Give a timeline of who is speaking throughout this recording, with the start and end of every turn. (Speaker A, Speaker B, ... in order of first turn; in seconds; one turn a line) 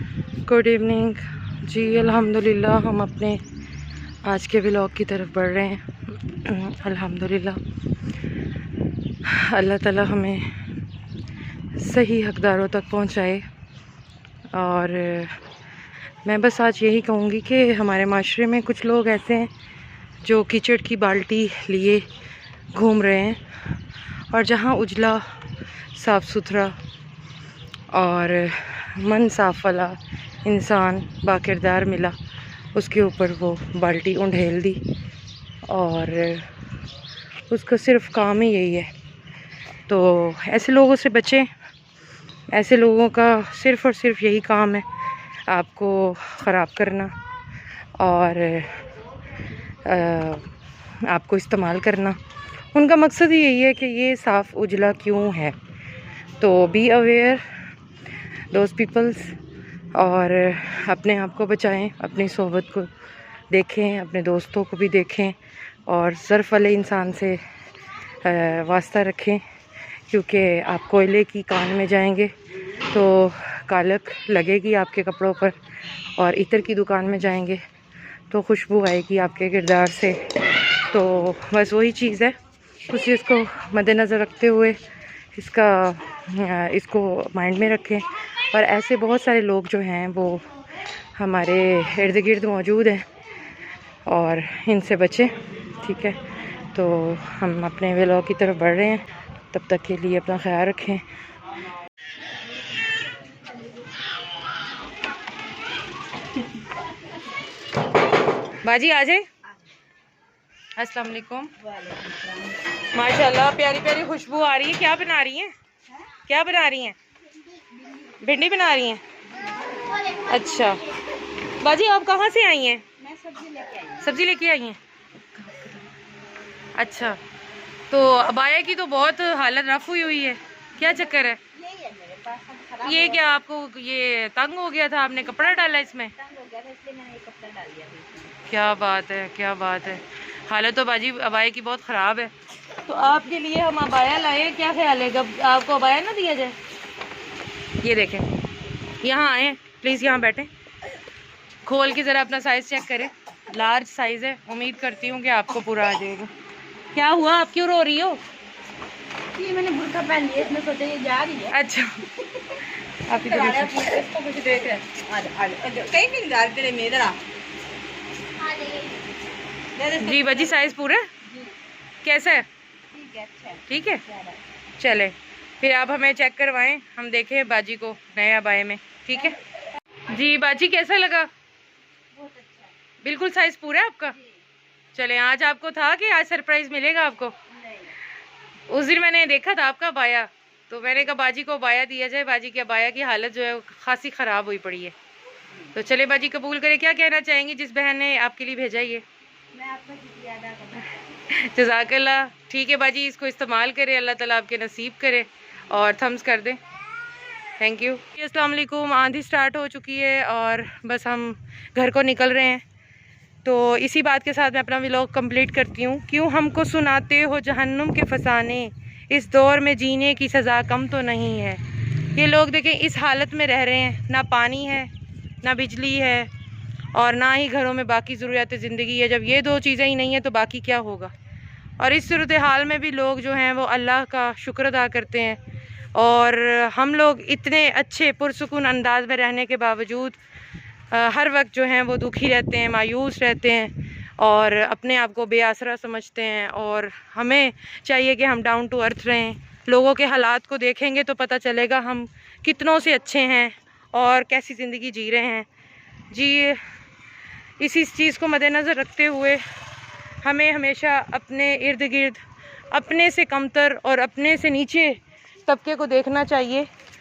Speaker A: 0.4-3.4
Speaker A: 4.2-7.6
Speaker A: 9.2-10.5
Speaker A: 11.8-13.4
Speaker A: 14.5-15.4
Speaker A: 16.2-19.5
Speaker A: 20.2-22.0
Speaker A: 22.7-23.4
Speaker A: 24.3-25.2
Speaker A: 25.9-26.8
Speaker A: 27.9-32.1
Speaker A: 32.7-34.8
Speaker A: 35.7-36.5
Speaker A: 37.5-38.9
Speaker A: 39.9-41.5
Speaker A: 42.5-44.8
Speaker A: 45.5-47.1
Speaker A: 48.0-48.8
Speaker A: 49.8-50.5
Speaker A: 51.0-52.2
Speaker A: 52.7-55.6
Speaker A: 56.4-57.4
Speaker A: 58.5-59.4
Speaker A: 59.9-62.9
Speaker A: 63.5-67.4
Speaker A: 68.2-69.4
Speaker A: 70.1-72.3
Speaker A: 72.9-75.5
Speaker A: 76.2-77.6
Speaker A: 78.3-80.2
Speaker A: 80.9-82.3
Speaker A: 82.9-84.8
Speaker A: 85.3-90.5
Speaker A: 91.2-93.0
Speaker A: 94.1-96.2
Speaker A: 96.7-101.0
Speaker A: 108.6-109.3
Speaker A: 110.8-111.5
Speaker B: 111.6-112.6
Speaker A: 112.9-115.5
Speaker A: 116.2-117.0
Speaker B: 117.5-118.2
Speaker A: 118.2-119.0
Speaker B: 119.4-120.3
Speaker A: 120.2-120.9
Speaker A: 121.5-122.8
Speaker B: 123.0-124.1
Speaker A: 124.0-124.8
Speaker A: 125.3-125.8
Speaker A: 126.7-127.2
Speaker A: 127.9-131.4
Speaker B: 130.8-133.4
Speaker A: 132.8-136.1
Speaker B: 135.3-138.4
Speaker A: 138.5-146.6
Speaker A: 147.8-148.3
Speaker A: 149.0-150.5
Speaker A: 151.6-156.3
Speaker A: 156.9-158.2
Speaker B: 159.3-161.6
Speaker A: 161.5-162.1
Speaker A: 162.9-163.9
Speaker B: 163.1-167.2
Speaker B: 168.4-168.9
Speaker B: 169.7-170.6
Speaker A: 170.0-171.1
Speaker A: 172.0-172.4
Speaker B: 172.9-174.4
Speaker A: 173.7-174.0
Speaker A: 174.8-179.4
Speaker A: 180.1-181.3
Speaker B: 182.1-182.7
Speaker A: 183.0-184.2
Speaker B: 184.1-184.4
Speaker A: 184.9-187.3
Speaker B: 187.5-187.9
Speaker A: 188.7-194.9
Speaker A: 195.7-199.0
Speaker B: 199.5-201.0
Speaker A: 201.3-206.6
Speaker A: 207.6-212.6
Speaker A: 213.4-221.6
Speaker A: 222.2-224.9
Speaker A: 225.4-226.3
Speaker A: 226.9-231.1
Speaker A: 231.8-235.4
Speaker A: 235.9-240.2
Speaker A: 240.9-255.5
Speaker A: 256.1-256.6
Speaker A: 257.6-259.4
Speaker A: 260.2-262.2
Speaker A: 262.7-266.7